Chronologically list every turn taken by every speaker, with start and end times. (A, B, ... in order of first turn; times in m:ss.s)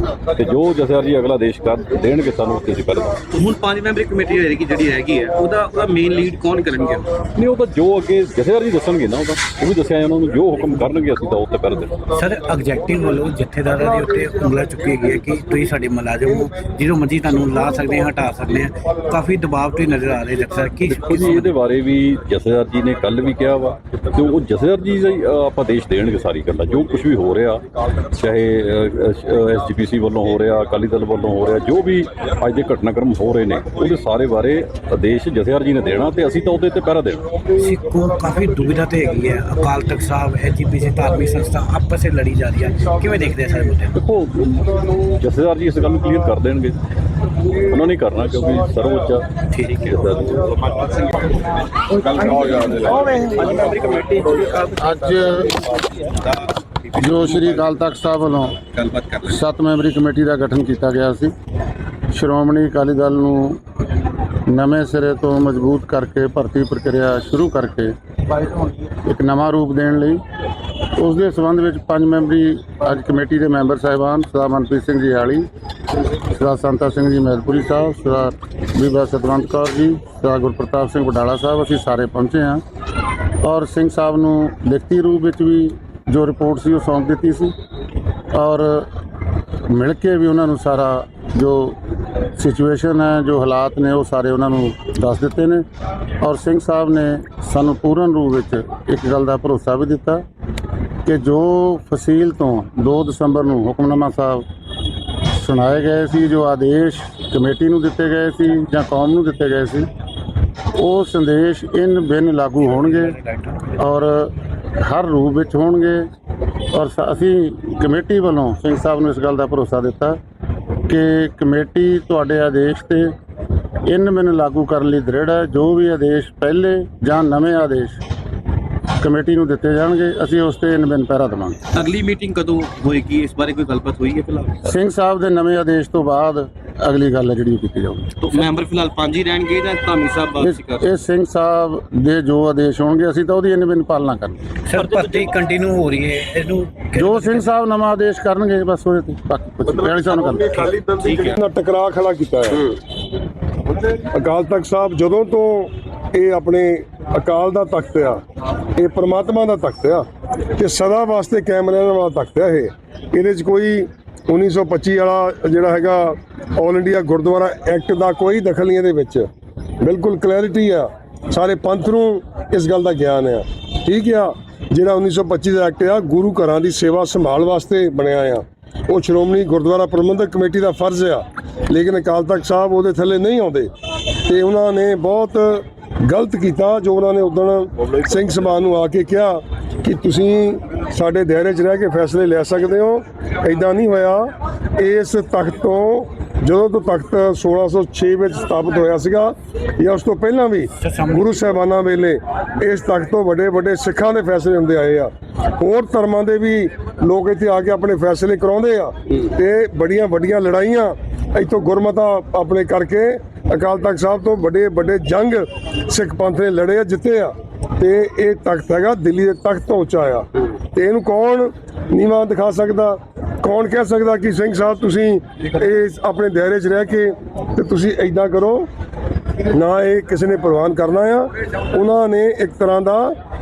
0:00.3-0:03.2 A
0:03.3-0:07.1 B
0:07.4-0:12.0 A
0:12.1-0:21.5 C
0:20.9-0:37.3 A
0:37.5-0:44.0 C
0:44.0-0:46.8 A
0:47.4-0:50.5 A
0:49.5-0:54.8 B
0:54.8-0:55.7 D
0:56.0-0:57.7 B
0:57.0-0:58.6 D
0:58.4-0:59.4 B
0:59.3-1:01.3 D
1:02.1-1:03.6 D
1:04.5-1:10.2 D
1:10.9-1:15.5 D
1:16.1-1:22.6 D
1:23.4-1:27.6 D
1:28.3-1:29.0 D
1:29.7-1:35.7 D
1:36.2-1:40.2 D
1:41.0-1:44.5 D
1:45.1-1:49.9 D
1:50.8-1:53.2 D
1:52.7-1:53.8 C
1:53.8-1:56.1 D
1:56.6-2:00.2 D
2:00.9-2:03.2 D
2:03.8-2:08.0 D
2:09.0-2:11.6 D
2:11.7-2:14.7 B
2:14.7-2:18.1 D
2:18.2-2:20.8 B
2:20.4-2:24.5 D
2:24.6-2:27.5 C
2:24.8-2:25.3 B
2:27.0-2:30.8 D
2:30.7-2:31.4 B
2:31.3-2:32.8 E
2:34.1-2:38.2 E
2:38.8-2:40.0 E
2:40.6-2:49.3 E
2:49.8-3:03.7 E
3:04.2-3:48.7 E
3:20.8-3:21.4 C
3:49.5-3:53.2 E